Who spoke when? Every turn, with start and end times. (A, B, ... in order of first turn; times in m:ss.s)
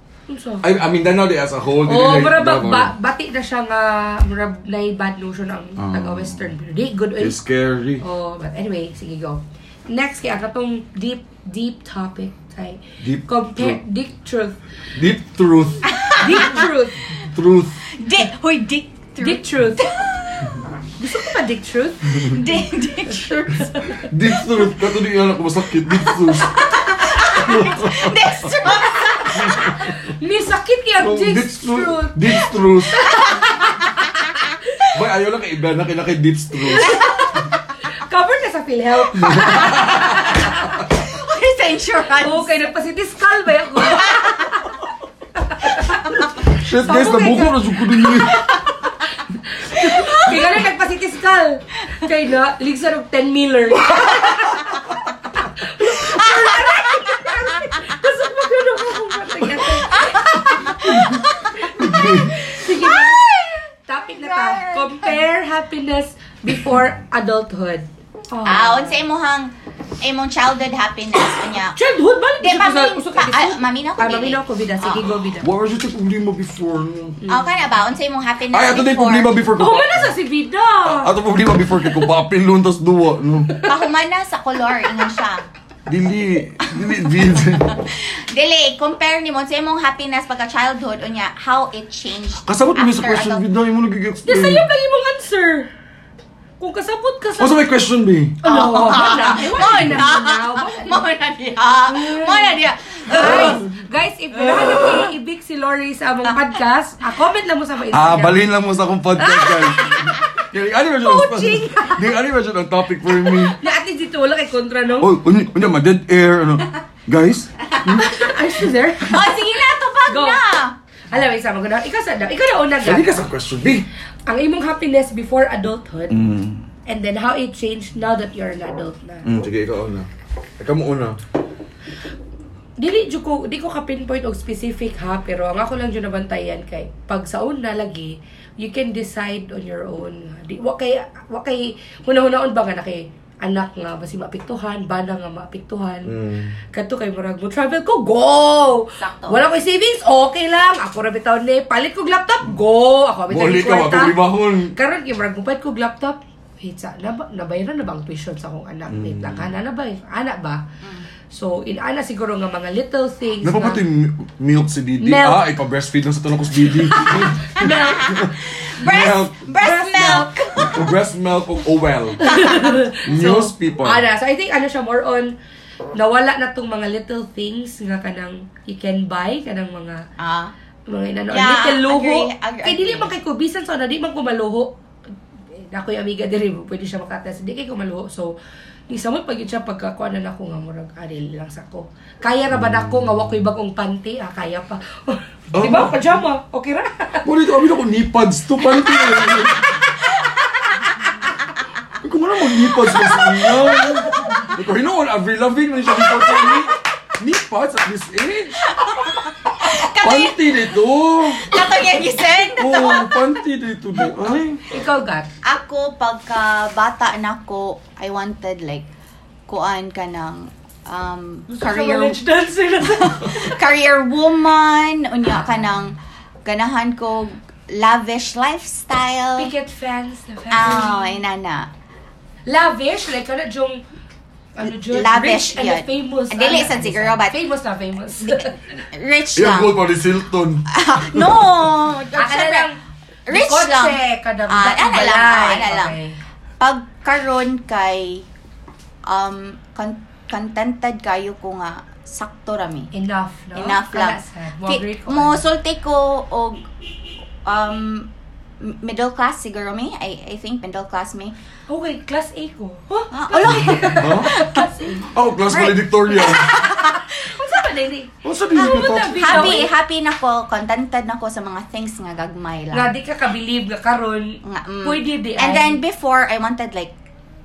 0:00.3-0:00.7 A
0:00.6-0:02.9 B
0:01.8-0:07.4 A
0:05.8-0:06.5 B
0:07.2-0:08.0 B
0:08.0-0:14.6 A
0:13.0-0:13.8 B
0:15.0-0:15.9 B
0:15.8-0:16.7 C
0:16.2-0:17.1 A
0:17.2-0:17.8 B
0:17.9-0:20.5 C
0:19.2-0:20.0 A
0:21.0-0:22.6 A
0:22.2-0:23.7 C
0:23.3-0:24.1 A
0:23.7-0:26.6 B
0:26.4-0:29.5 C
0:27.2-0:28.4 B
0:27.4-0:27.6 A
0:28.8-0:34.0 A
0:29.3-0:30.1 B
0:31.0-0:33.1 B
0:33.1-0:34.3 C
0:34.9-0:37.0 B
0:36.6-0:40.8 A
0:36.8-0:37.5 C
0:39.1-0:40.2 B
0:39.5-0:42.6 C
0:42.2-0:44.8 A
0:43.9-0:44.5 C
0:45.4-0:48.6 A
0:46.5-0:48.5 B
0:49.1-1:03.2 A
0:49.9-0:50.5 C
0:53.9-0:54.5 B
0:56.4-0:57.0 C
0:59.8-1:01.9 C
1:00.8-1:01.2 B
1:01.8-1:02.4 B
1:02.5-1:05.2 C
1:03.9-1:09.0 A
1:08.4-1:11.8 C
1:11.8-1:15.5 A
1:12.4-1:15.0 C
1:15.4-1:17.2 B
1:17.3-1:19.3 C
1:18.5-1:20.1 B
1:19.6-1:21.1 A
1:20.8-1:23.6 B
1:21.8-1:22.1 A
1:23.5-1:23.8 A
1:23.6-1:25.5 C
1:25.9-1:27.8 B
1:26.6-1:33.5 C
1:32.4-1:34.7 B
1:34.2-1:35.7 A
1:36.6-1:37.6 A
1:37.4-1:38.4 B
1:38.4-1:41.1 A
1:38.4-1:43.6 C
1:39.6-1:40.0 B
1:41.9-1:48.4 A
1:43.1-1:43.6 B
1:44.4-1:45.1 C
1:47.9-1:53.6 B
1:49.2-1:50.5 A
1:51.0-1:52.1 A
1:53.1-1:55.1 A
1:55.0-1:58.6 B
1:57.9-1:59.4 A
1:59.0-2:00.8 C
2:00.1-2:00.4 A
2:01.1-2:03.2 A
2:02.8-2:03.9 B
2:04.3-2:06.3 A
2:06.1-2:06.6 B
2:06.9-2:09.3 A
2:09.2-2:11.2 B
2:12.8-2:26.1 A
2:26.1-2:26.6 B
2:26.7-2:40.6 A
2:29.0-2:29.4 C
2:33.3-2:34.7 B
2:38.9-2:39.5 B
2:41.3-2:43.8 A
2:43.4-2:49.4 B
2:45.0-2:45.4 A
2:46.6-2:48.2 A
2:47.6-2:50.8 C
2:49.6-2:50.5 A
2:50.0-2:54.0 B
2:52.2-2:55.3 A
2:52.3-2:52.8 C
2:56.0-3:00.0 A
3:00.2-3:00.5 C
3:00.9-3:04.7 A
3:01.3-3:03.1 C
3:05.6-3:08.3 A
3:08.9-3:17.3 A
3:15.5-3:16.2 B
3:17.2-3:19.8 B
3:22.0-3:28.7 B
3:23.1-3:24.5 C
3:28.7-3:30.6 C
3:30.0-3:31.5 B
3:31.2-3:33.2 C
3:32.6-3:34.6 B
3:34.7-3:35.3 A
3:35.4-3:38.9 C
3:39.5-3:42.2 C
3:41.5-3:43.7 A
3:42.8-3:49.5 C
3:49.4-3:51.2 A
3:50.5-3:51.7 C
3:52.5-3:53.8 A
3:54.6-3:58.6 A
3:54.8-3:57.4 C
3:58.2-3:59.7 C
3:59.4-4:01.5 B
4:00.7-4:02.7 C
4:02.1-4:02.8 A
4:03.3-4:05.9 C
4:03.3-4:06.2 A
4:06.6-4:08.2 C
4:09.1-4:12.9 C
4:12.9-4:15.4 A
4:13.6-4:16.6 C
4:17.5-4:21.4 C
4:21.7-4:29.7 A
4:23.1-4:24.6 C
4:24.0-4:24.4 B
4:25.1-4:26.6 B
4:25.5-4:27.1 C
4:28.2-4:29.7 B
4:29.1-4:32.9 C
4:32.7-4:35.8 A
4:34.4-4:36.9 C